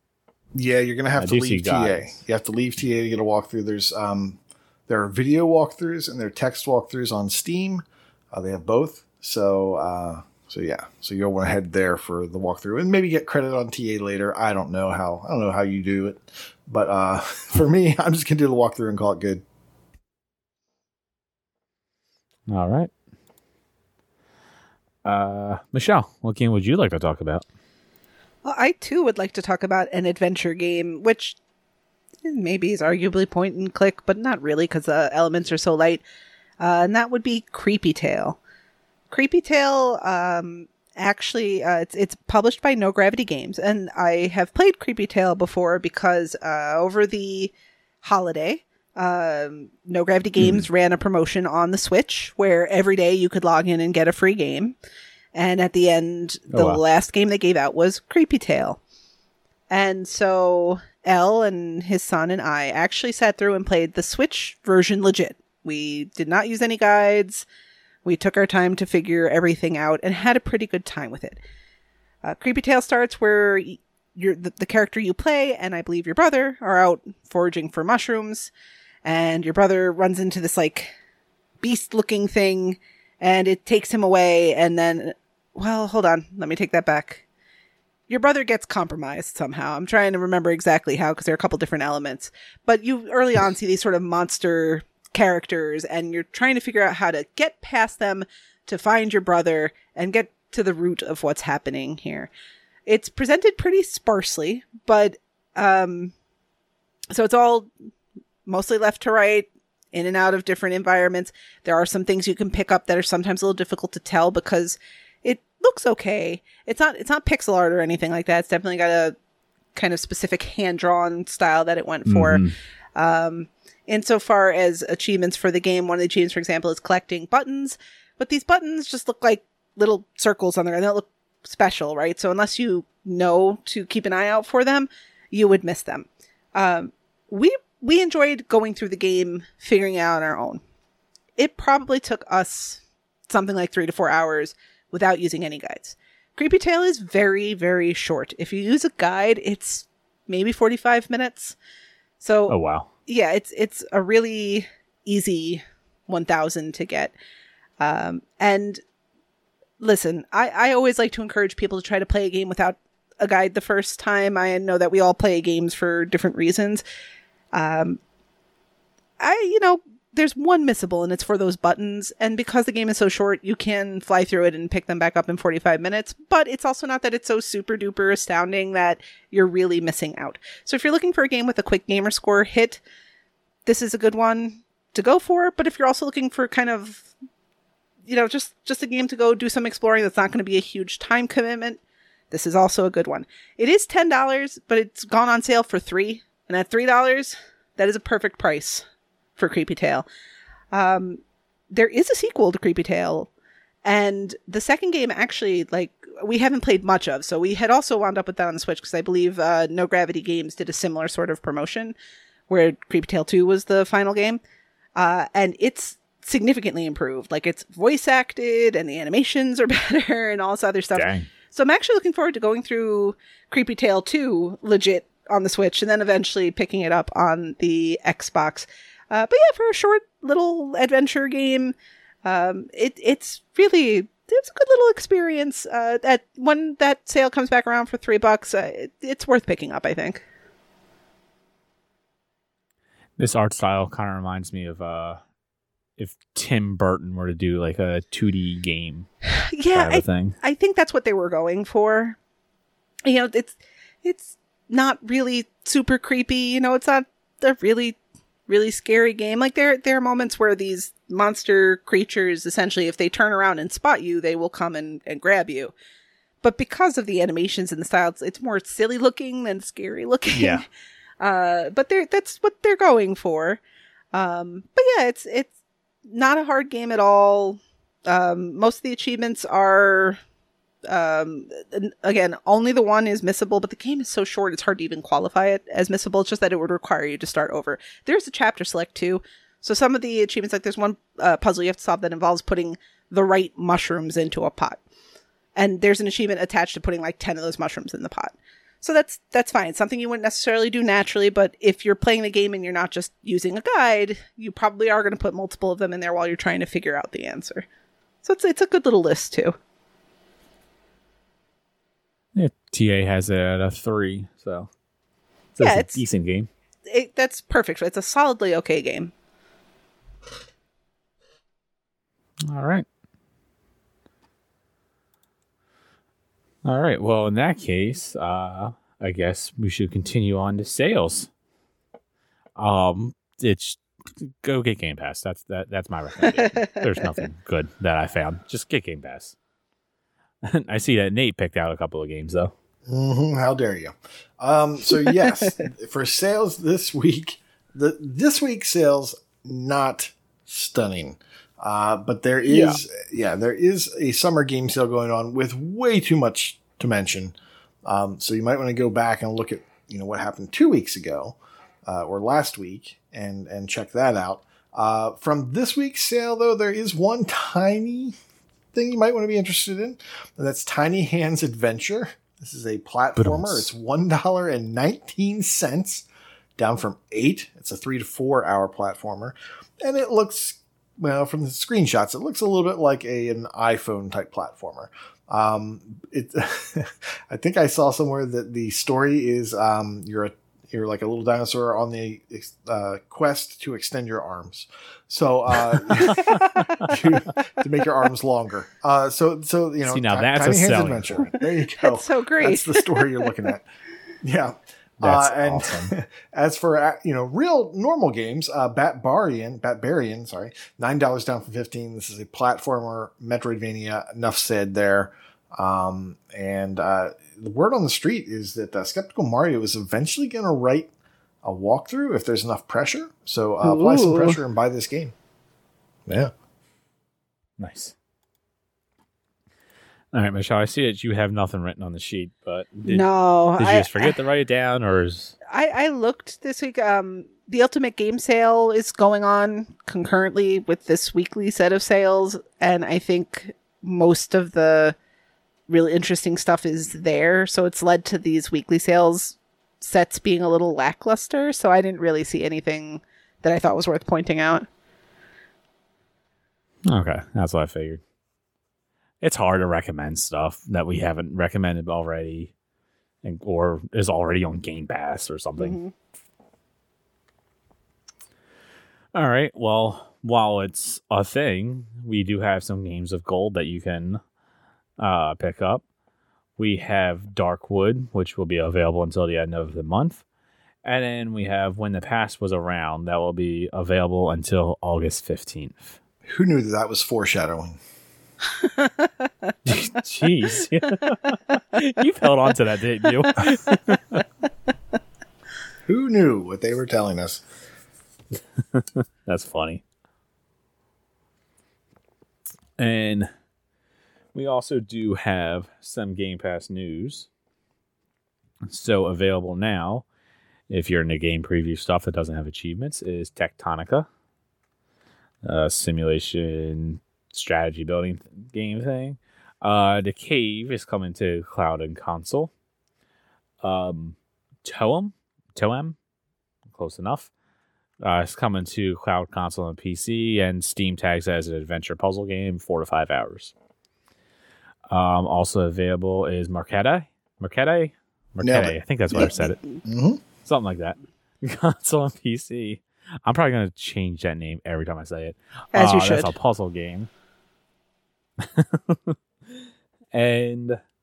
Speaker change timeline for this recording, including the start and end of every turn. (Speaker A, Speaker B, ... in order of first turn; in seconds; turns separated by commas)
Speaker A: 0.5-19.4, Speaker B: 1.2-2.0, Speaker B: 22.5-22.9, Speaker B: 25.0-27.4, Speaker C: 28.4-31.4, Speaker C: 32.2-36.0, Speaker C: 36.6-38.4, Speaker C: 39.1-54.8, Speaker B: 50.4-50.7, Speaker C: 55.3-58.8, Speaker B: 56.5-56.8, Speaker C: 59.7-67.5, Speaker C: 68.0-71.4, Speaker C: 72.2-78.5, Speaker C: 79.0-80.9, Speaker C: 81.6-87.2, Speaker C: 88.1-102.3, Speaker C: 102.9-106.1, Speaker C: 107.1-107.7, Speaker C: 108.5-119.2, Speaker C: 119.7-122.4, Speaker B: 122.1-122.5, Speaker C: 123.0-140.6, Speaker C: 141.4-151.6, Speaker C: 152.2-157.1, Speaker B: 152.5-152.9, Speaker C: 157.8-158.8, Speaker C: 159.8-166.8, Speaker C: 167.5-168.0, Speaker C: 169.2-182.8, Speaker C: 183.7-187.1, Speaker C: 188.1-198.8, Speaker C: 199.4-200.1, Speaker C: 200.7-201.2, Speaker C: 201.7-203.3, Speaker C: 203.8-211.9, Speaker C: 212.5-214.4, Speaker C: 215.0-240.2, Speaker B: 220.9-221.3, Speaker B: 243.2-245.2, Speaker B: 246.0-249.1, Speaker C: 249.5-252.2, Speaker B: 249.7-250.3, Speaker C: 253.1-265.7, Speaker C: 266.4-270.6, Speaker B: 270.3-270.6, Speaker C: 271.2-273.6, Speaker C: 274.1-275.5, Speaker C: 276.1-280.2, Speaker C: 280.9-294.8, Speaker C: 295.6-307.6, Speaker C: 308.2-309.6, Speaker B: 312.3-314.7, Speaker B: 315.6-316.5, Speaker C: 315.6-316.0, Speaker C: 316.9-319.1, Speaker B: 322.4-322.9, Speaker B: 326.6-331.3, Speaker B: 332.6-339.4, Speaker C: 336.2-337.2, Speaker B: 340.4-342.5, Speaker A: 342.9-357.3, Speaker C: 345.0-345.3, Speaker C: 352.5-352.7, Speaker A: 357.9-368.1, Speaker A: 368.7-376.1, Speaker B: 373.2-373.6, Speaker A: 376.6-403.6, Speaker B: 396.1-396.9, Speaker C: 396.1-396.6, Speaker B: 399.8-401.2, Speaker C: 401.8-403.2, Speaker A: 404.2-420.9, Speaker B: 405.0-405.9, Speaker A: 421.4-425.1, Speaker C: 423.6-424.4, Speaker A: 426.1-426.3, Speaker B: 427.6-427.9, Speaker B: 430.1-435.4, Speaker C: 432.9-434.1, Speaker C: 435.5-444.9, Speaker C: 445.7-454.7, Speaker B: 456.9-458.0, Speaker B: 459.2-462.5, Speaker B: 463.2-465.8, Speaker C: 465.6-465.9, Speaker B: 469.1-474.2, Speaker B: 475.0-475.8, Speaker B: 476.6-480.2, Speaker B: 480.8-486.0, Speaker A: 486.3-487.8, Speaker C: 488.6-489.1, Speaker B: 489.6-494.2, Speaker C: 493.2-493.7, Speaker A: 495.9-497.4, Speaker B: 498.7-499.8, Speaker B: 502.8-503.3, Speaker B: 504.3-507.3, Speaker B: 508.6-510.0, Speaker B: 510.7-514.1, Speaker B: 515.4-522.5, Speaker B: 523.6-526.0, Speaker B: 526.7-527.3, Speaker B: 528.0-533.5, Speaker B: 534.9-539.6, Speaker A: 538.4-540.2, Speaker B: 540.4-547.1, Speaker C: 545.7-546.3, Speaker B: 548.4-549.1, Speaker B: 550.1-550.8